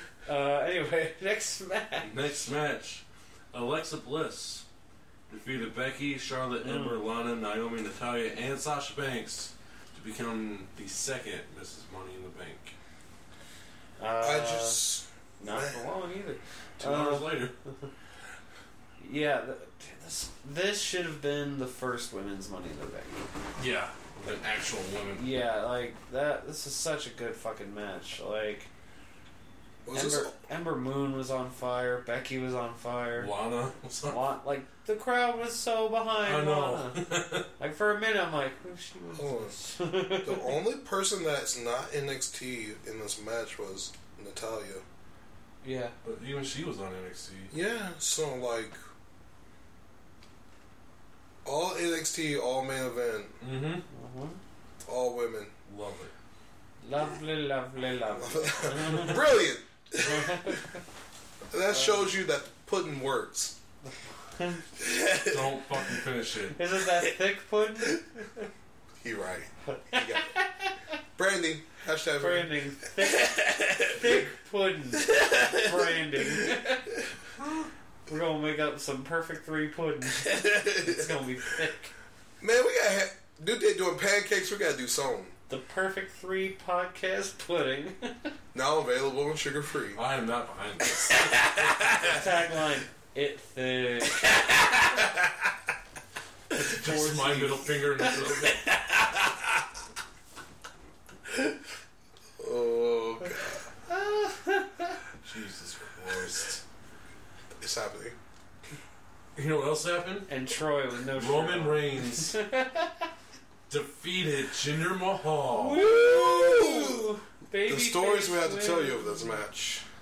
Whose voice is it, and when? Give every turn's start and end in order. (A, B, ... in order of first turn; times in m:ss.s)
0:00.3-0:02.2 A
0:02.0-0:04.6 B
0:05.3-0:12.8 B
0:06.6-0:07.1 A
0:14.0-0:17.9 A
0:14.2-0:15.8 C
0:16.8-0:17.6 B
0:19.0-0:23.3 A
0:23.6-0:25.3 B
0:25.2-0:28.7 A
0:29.8-0:30.3 C
0:29.9-0:33.3 A
0:33.2-0:34.3 B
0:34.1-0:40.6 A
0:36.2-0:37.5 B
0:39.2-0:39.6 C
0:40.2-0:44.8 C
0:45.6-0:46.0 A
0:46.0-0:47.6 B
0:47.5-0:48.8 C
0:51.4-0:53.4 C
0:53.4-0:53.9 B
0:53.9-0:54.4 A
0:54.8-0:55.5 C
0:55.7-0:56.1 B
0:56.8-0:59.2 A
0:58.2-1:00.6 C
1:00.0-1:00.7 A
1:01.5-1:03.6 C
1:01.7-1:02.1 A
1:03.9-1:04.7 A
1:04.8-1:05.5 C
1:05.2-1:06.6 B
1:06.6-1:08.4 A
1:09.0-1:10.3 C
1:09.7-1:10.7 A
1:11.2-1:13.9 C
1:12.2-1:16.9 A
1:15.0-1:16.5 C
1:18.1-1:21.9 A
1:20.2-1:21.2 C
1:22.4-1:25.4 C
1:25.5-1:28.3 A
1:28.5-1:30.0 C
1:30.0-1:32.3 B
1:32.0-1:34.3 A
1:34.3-1:35.3 C
1:36.6-1:37.6 A
1:36.6-1:37.5 C
1:36.6-1:38.6 B
1:42.4-1:43.7 C
1:43.9-1:45.0 A
1:45.2-1:46.6 B
1:47.6-1:48.2 C
1:49.4-1:50.3 B
1:50.3-1:53.1 A
1:51.1-1:52.4 B
1:53.7-1:55.8 B
1:55.5-1:59.4 A
1:55.7-1:57.1 C
1:57.7-1:59.8 C